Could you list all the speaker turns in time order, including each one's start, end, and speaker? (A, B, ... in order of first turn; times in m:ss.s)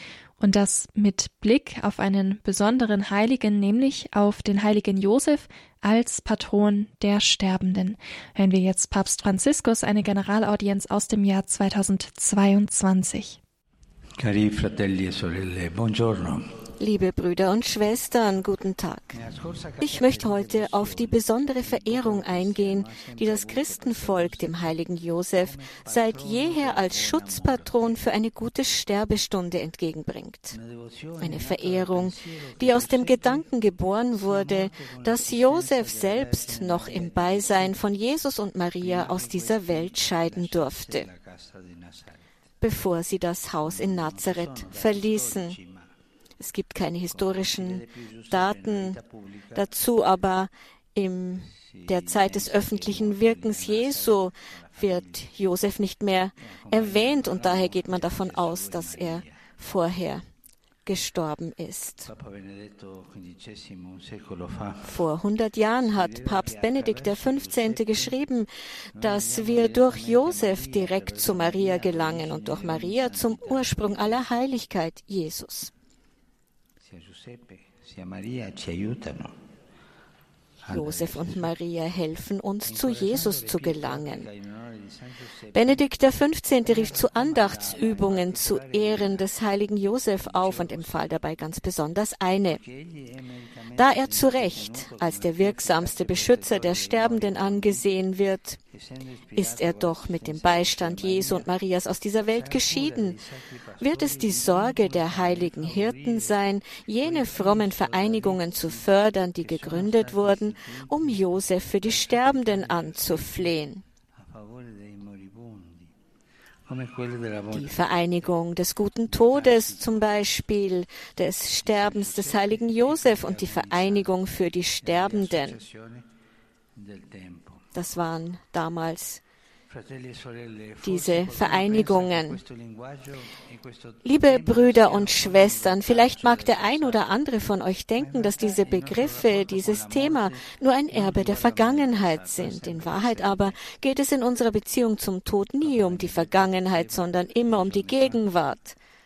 0:00.4-0:13.4 A
0:14.2-0:16.4 B
0:16.8-0:19.2 C
0:19.1-0:24.8 B
0:19.8-0:30.6 C
0:25.4-0:28.0 B
0:30.5-0:33.5 B
0:31.2-0:41.1 C
0:34.1-0:37.8 B
0:38.8-0:42.3 B
0:42.6-0:45.6 C
0:43.6-0:45.9 B
0:46.4-0:49.0 C
0:47.1-0:49.7 B
0:49.5-1:00.2 C
0:51.6-0:55.3 B
0:56.5-0:59.4 B
1:00.8-1:02.1 C
1:02.0-1:05.0 B
1:04.8-1:15.7 C
1:05.9-1:08.2 B
1:09.0-1:14.2 B
1:16.8-1:19.4 B
1:20.6-1:21.5 B
1:20.7-1:24.3 C
1:22.6-1:25.8 B
1:25.5-1:32.6 C
1:26.6-1:29.3 B
1:30.2-1:31.0 B
1:32.5-1:37.8 B
1:33.8-1:38.6 C
1:38.7-1:41.5 B
1:39.3-1:43.2 C
1:42.2-1:46.3 B
1:43.8-1:53.8 C
1:47.0-1:51.2 B
1:51.8-1:53.5 B
1:54.2-1:55.9 B
1:56.6-1:57.9 B
1:57.5-2:05.6 C
1:59.1-2:00.0 B
2:01.6-2:04.1 B
2:04.8-2:06.0 B
2:06.7-2:07.7 B
2:07.7-2:09.2 C
2:09.7-2:17.2 B
2:10.8-2:12.4 C
2:14.0-2:28.8 C
2:18.0-2:23.6 B
2:25.6-2:28.2 B